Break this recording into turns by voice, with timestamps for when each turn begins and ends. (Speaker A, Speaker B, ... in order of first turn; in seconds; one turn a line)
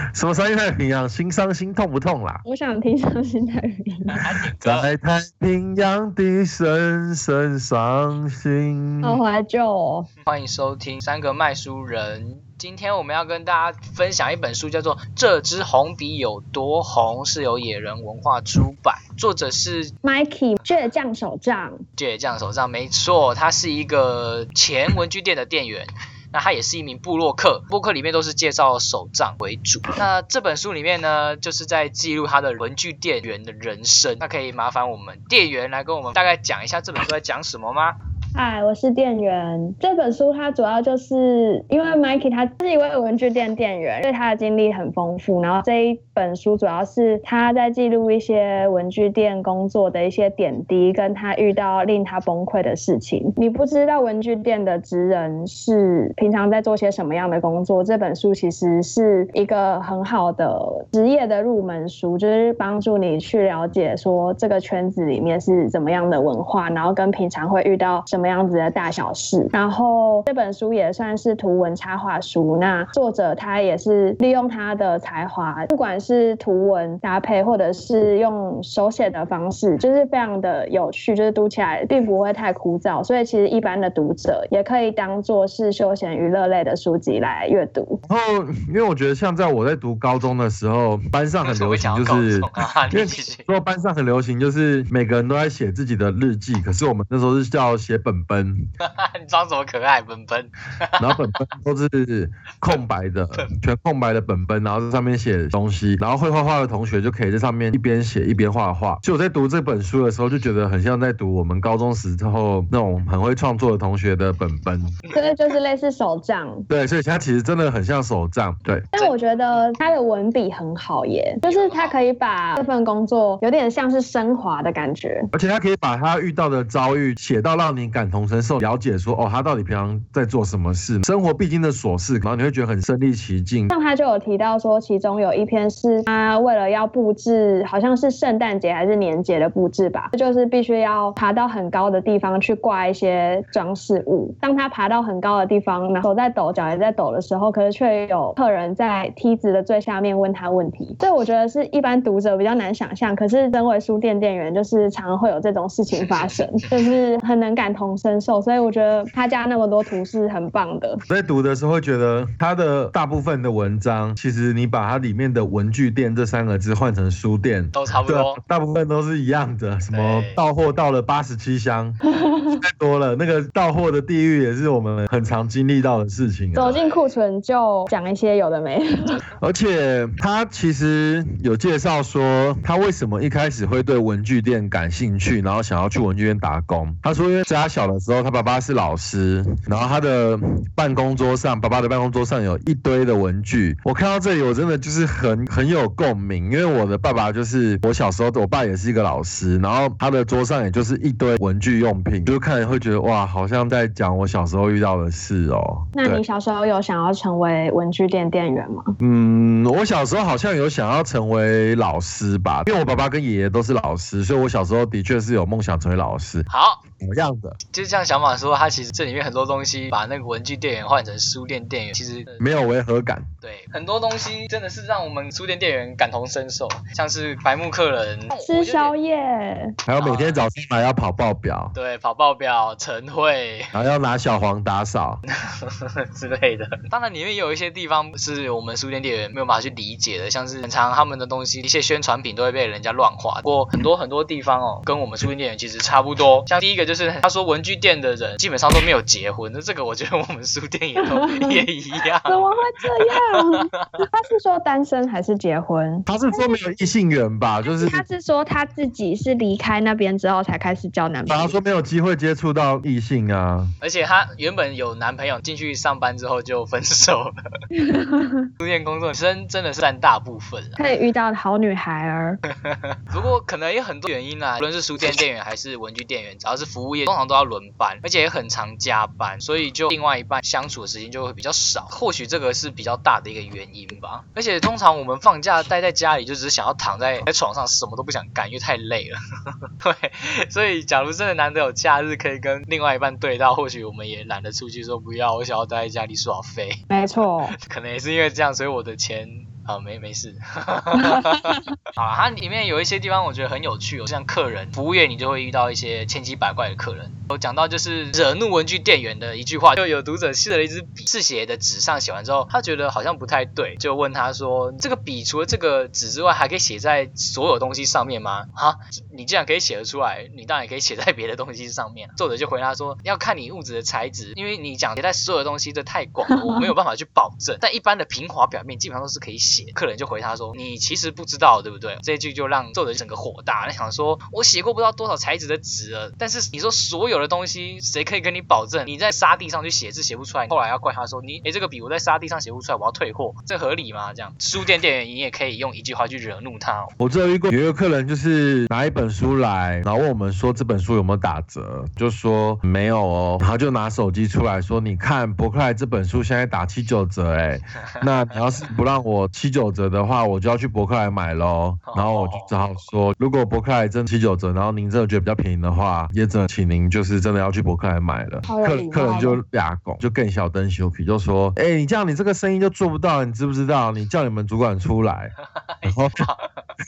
Speaker A: 0.1-2.4
Speaker B: 2.4-4.2
Speaker C: 4.1-4.9
Speaker A: 4.6-9.2
Speaker B: 9.0-10.1
Speaker C: 10.2-19.9
Speaker B: 20.0-21.8
Speaker C: 22.0-38.0
Speaker B: 38.3-88.0
Speaker A: 88.1-98.6
Speaker C: 91.4-93.5
Speaker C: 98.8-101.2
Speaker A: 101.0-115.0
Speaker B: 115.1-116.7
Speaker A: 116.7-118.9
Speaker B: 118.9-125.3
Speaker C: 119.0-120.0
Speaker C: 121.4-122.0
Speaker A: 125.3-133.7
Speaker B: 133.7-161.0
Speaker C: 156.0-156.4
Speaker A: 161.1-172.0
Speaker C: 167.7-168.4
Speaker C: 169.9-170.4
Speaker B: 172.1-172.6
Speaker A: 172.5-176.8
Speaker B: 176.5-179.2
Speaker C: 176.6-177.2
Speaker A: 179.4-206.2
Speaker B: 206.0-208.9
Speaker A: 209.0-216.4
Speaker C: 216.5-216.8
Speaker A: 217.0-217.6
Speaker C: 217.7-222.4
Speaker A: 222.4-223.3
Speaker C: 223.4-228.9
Speaker B: 228.4-229.8
Speaker A: 229.9-231.7
Speaker C: 230.0-230.4
Speaker C: 231.7-233.7
Speaker A: 233.7-235.2
Speaker C: 235.5-252.5
Speaker B: 251.0-251.6
Speaker B: 252.2-256.6
Speaker C: 253.0-254.0
Speaker A: 256.1-258.0
Speaker B: 257.6-261.6
Speaker A: 261.3-263.7
Speaker C: 263.8-267.4
Speaker B: 267.8-268.5
Speaker C: 268.6-270.8
Speaker B: 270.8-272.4
Speaker C: 272.5-289.2
Speaker C: 289.8-296.8
Speaker B: 296.9-297.6
Speaker C: 297.6-346.9
Speaker B: 301.0-301.6
Speaker B: 326.3-326.7
Speaker A: 347.0-375.3
Speaker C: 357.9-358.4
Speaker C: 361.9-362.7
Speaker B: 368.5-369.4
Speaker C: 375.6-376.6
Speaker A: 375.8-376.2